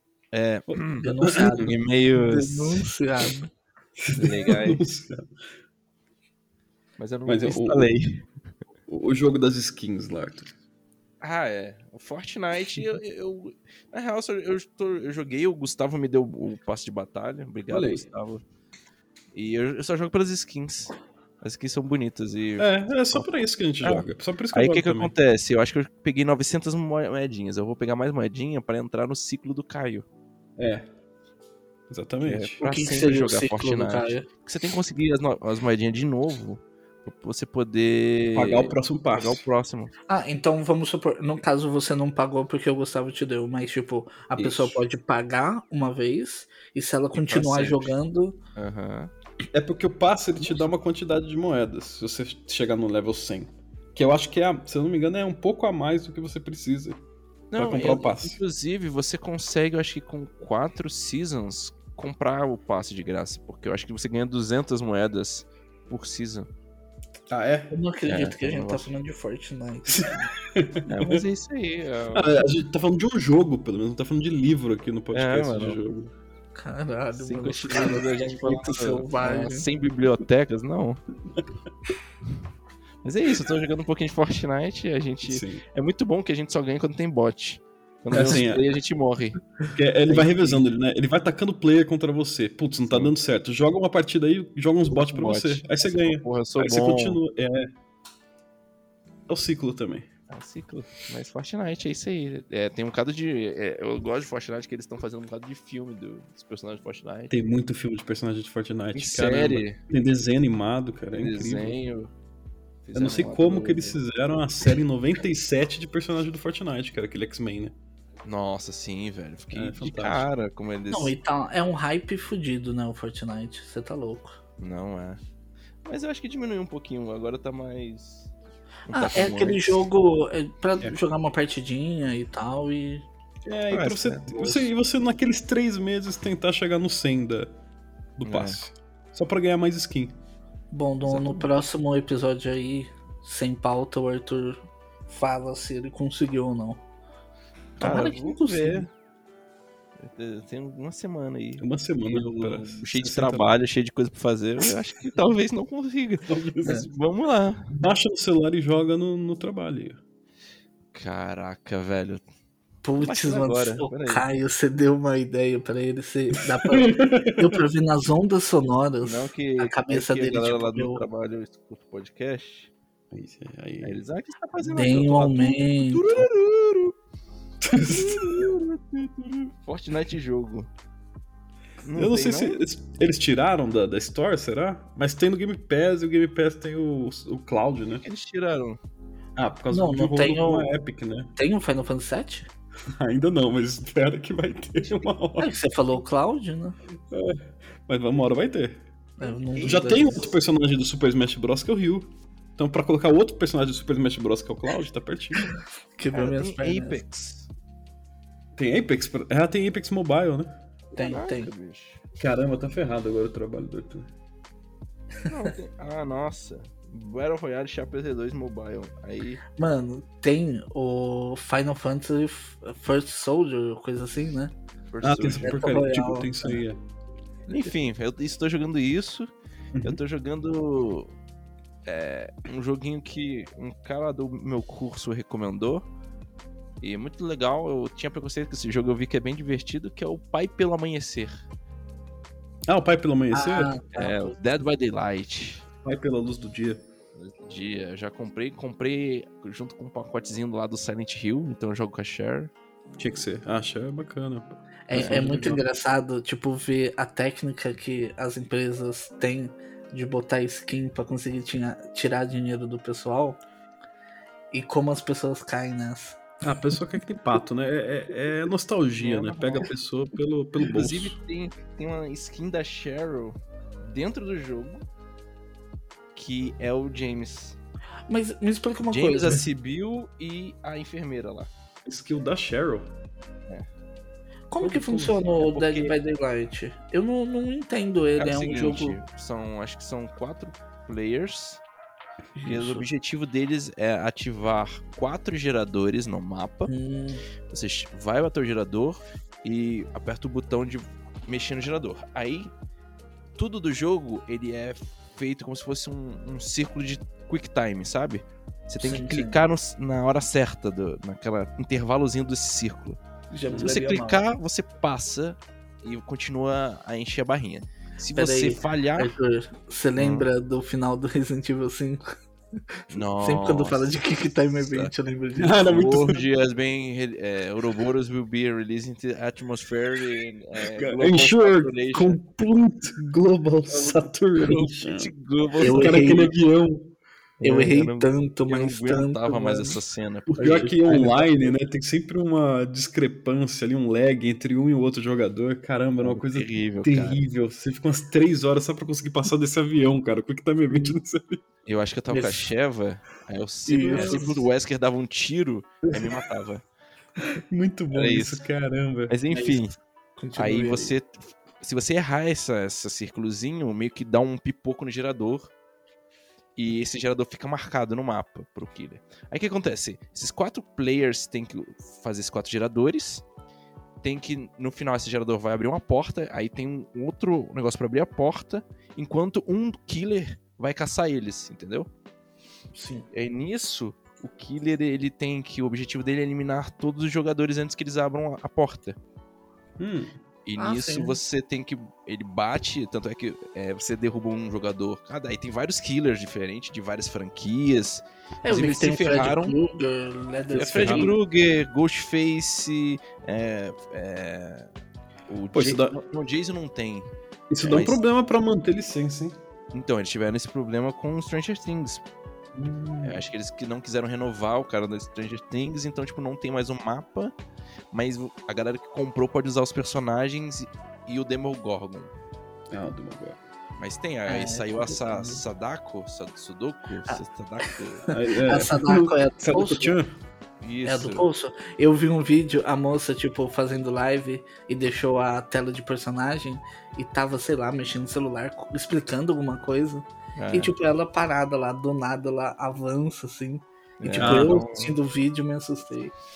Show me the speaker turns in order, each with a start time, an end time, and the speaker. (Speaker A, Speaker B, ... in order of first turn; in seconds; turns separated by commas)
Speaker A: 0.3-2.9, Speaker B: 0.7-1.7, Speaker C: 1.0-3.5, Speaker B: 4.0-5.3, Speaker A: 4.1-4.8, Speaker A: 7.0-8.3, Speaker B: 7.3-7.9, Speaker B: 8.9-10.5, Speaker A: 11.2-18.4, Speaker B: 17.7-18.1, Speaker A: 19.3-23.3, Speaker B: 22.6-25.1, Speaker A: 23.8-30.1, Speaker B: 30.6-30.9, Speaker B: 31.9-32.6, Speaker A: 32.2-39.9, Speaker C: 32.6-34.3, Speaker B: 38.4-39.4, Speaker C: 40.1-48.4, Speaker A: 44.4-44.7, Speaker A: 47.3-47.9, Speaker A: 48.6-49.1, Speaker B: 49.5-57.0, Speaker A: 57.5-66.5, Speaker B: 57.6-58.4, Speaker B: 67.3-67.7, Speaker C: 67.7-70.3, Speaker A: 68.1-68.9, Speaker B: 69.9-71.2, Speaker A: 70.9-72.4, Speaker B: 72.1-76.1, Speaker A: 75.1-75.9, Speaker C: 76.5-79.7, Speaker A: 77.2-81.0, Speaker A: 83.0-89.4, Speaker B: 85.2-85.6, Speaker B: 88.1-88.6, Speaker B: 89.8-97.7, Speaker A: 90.1-90.7, Speaker A: 94.9-97.2, Speaker B: 99.3-100.1, Speaker A: 100.3-107.3, Speaker B: 107.3-111.8, Speaker A: 108.9-109.8, Speaker A: 111.1-112.1, Speaker A: 112.8-114.0, Speaker B: 112.9-117.8, Speaker A: 118.2-121.2, Speaker B: 119.5-120.3, Speaker C: 120.9-124.4, Speaker A: 124.6-125.2, Speaker A: 125.8-128.3, Speaker A: 128.9-129.9, Speaker C: 128.9-133.1, Speaker B: 133.5-137.5, Speaker A: 133.7-134.7, Speaker B: 138.2-140.2, Speaker A: 138.2-138.6, Speaker C: 140.7-146.8, Speaker A: 141.0-141.6, Speaker A: 147.8-148.9, Speaker C: 147.8-148.9, Speaker A: 150.0-157.7, Speaker B: 151.6-153.5, Speaker B: 156.3-156.8, Speaker B: 157.8-160.0, Speaker A: 160.9-162.2, Speaker C: 162.8-171.0, Speaker A: 163.0-164.2, Speaker B: 166.4-167.6, Speaker A: 169.0-172.7, Speaker B: 173.1-174.0, Speaker A: 173.8-176.9, Speaker C: 174.7-176.3, Speaker B: 177.6-178.5, Speaker A: 177.8-180.7, Speaker A: 181.8-182.6, Speaker B: 181.9-188.0, Speaker A: 188.0-188.8, Speaker B: 189.4-191.3, Speaker C: 189.7-190.8, Speaker C: 191.4-192.5, Speaker B: 193.0-195.5, Speaker C: 195.4-196.8, Speaker B: 197.1-198.8, Speaker C: 199.2-200.3, Speaker B: 199.6-205.5, Speaker C: 205.4-207.0, Speaker A: 206.1-207.5, Speaker B: 208.6-210.6, Speaker C: 210.9-211.5, Speaker A: 211.0-212.0, Speaker B: 212.2-214.1, Speaker A: 215.3-219.4, Speaker C: 219.6-224.5, Speaker A: 224.9-225.6, Speaker B: 225.0-226.8, Speaker C: 225.4-226.6, Speaker A: 227.5-229.3, Speaker B: 229.7-230.0, Speaker A: 229.8-231.1, Speaker A: 231.9-235.8, Speaker A: 236.8-241.4, Speaker B: 242.7-243.7, Speaker C: 243.3-244.4, Speaker A: 243.9-245.7, Speaker B: 245.8-246.8, Speaker A: 247.2-252.5, Speaker B: 253.0-255.6, Speaker C: 254.9-263.4, Speaker A: 254.9-255.4, Speaker C: 264.5-266.2, Speaker B: 266.4-271.2, Speaker A: 269.0-269.7, Speaker A: 270.6-274.8, Speaker A: 276.1-277.6, Speaker C: 278.1-279.4, Speaker A: 278.9-281.5, Speaker B: 281.9-282.9, Speaker C: 284.5-289.0, Speaker B: 284.6-285.2, Speaker A: 285.4-285.9, Speaker A: 288.2-291.6, Speaker C: 292.4-292.9, Speaker A: 292.4-296.7, Speaker C: 296.7-297.2, Speaker A: 297.5-302.5, Speaker A: 303.4-313.0, Speaker C: 308.8-309.4, Speaker C: 313.3-314.3, Speaker A: 313.6-319.1, Speaker C: 318.1-322.1, Speaker A: 320.0-320.3, Speaker C: 322.9-325.7, Speaker A: 322.9-324.9, Speaker B: 325.4-326.2, Speaker A: 325.7-332.2, Speaker B: 330.8-336.9, Speaker A: 333.7-336.3, Speaker C: 335.6-336.3, Speaker A: 337.4-340.8, Speaker C: 337.4-339.8, Speaker B: 340.3-351.4, Speaker C: 340.4-341.5, Speaker A: 346.0-347.2, Speaker A: 351.7-356.6, Speaker C: 352.1-352.5, Speaker C: 353.7-354.5, Speaker B: 353.9-354.3, Speaker B: 355.9-356.2, Speaker B: 357.5-359.1, Speaker A: 357.9-358.4, Speaker A: 359.1-359.8, Speaker C: 359.3-360.9, Speaker A: 360.4-365.5, Speaker A: 366.6-373.2, Speaker A: 374.0-381.9, Speaker C: 382.7-383.1, Speaker A: 383.1-389.0, Speaker B: 389.8-390.2, Speaker A: 390.4-399.6, Speaker C: 390.6-391.2, Speaker C: 398.4-401.1, Speaker A: 400.5-404.7, Speaker B: 400.6-401.2, Speaker A: 405.3-407.1, Speaker B: 405.5-406.0, Speaker B: 407.5-409.4, Speaker A: 407.6-408.0, Speaker A: 409.7-412.0, Speaker B: 412.6-413.2, Speaker A: 413.0-417.4, Speaker A: 417.9-422.1, Speaker B: 422.7-423.4, Speaker A: 423.8-428.1, Speaker C: 424.3-425.4, Speaker C: 427.1-430.0, Speaker B: 428.1-430.1, Speaker A: 430.6-431.3, Speaker C: 430.9-446.1, Speaker A: 440.4-440.7, Speaker A: 444.0-444.9, Speaker B: 444.1-444.6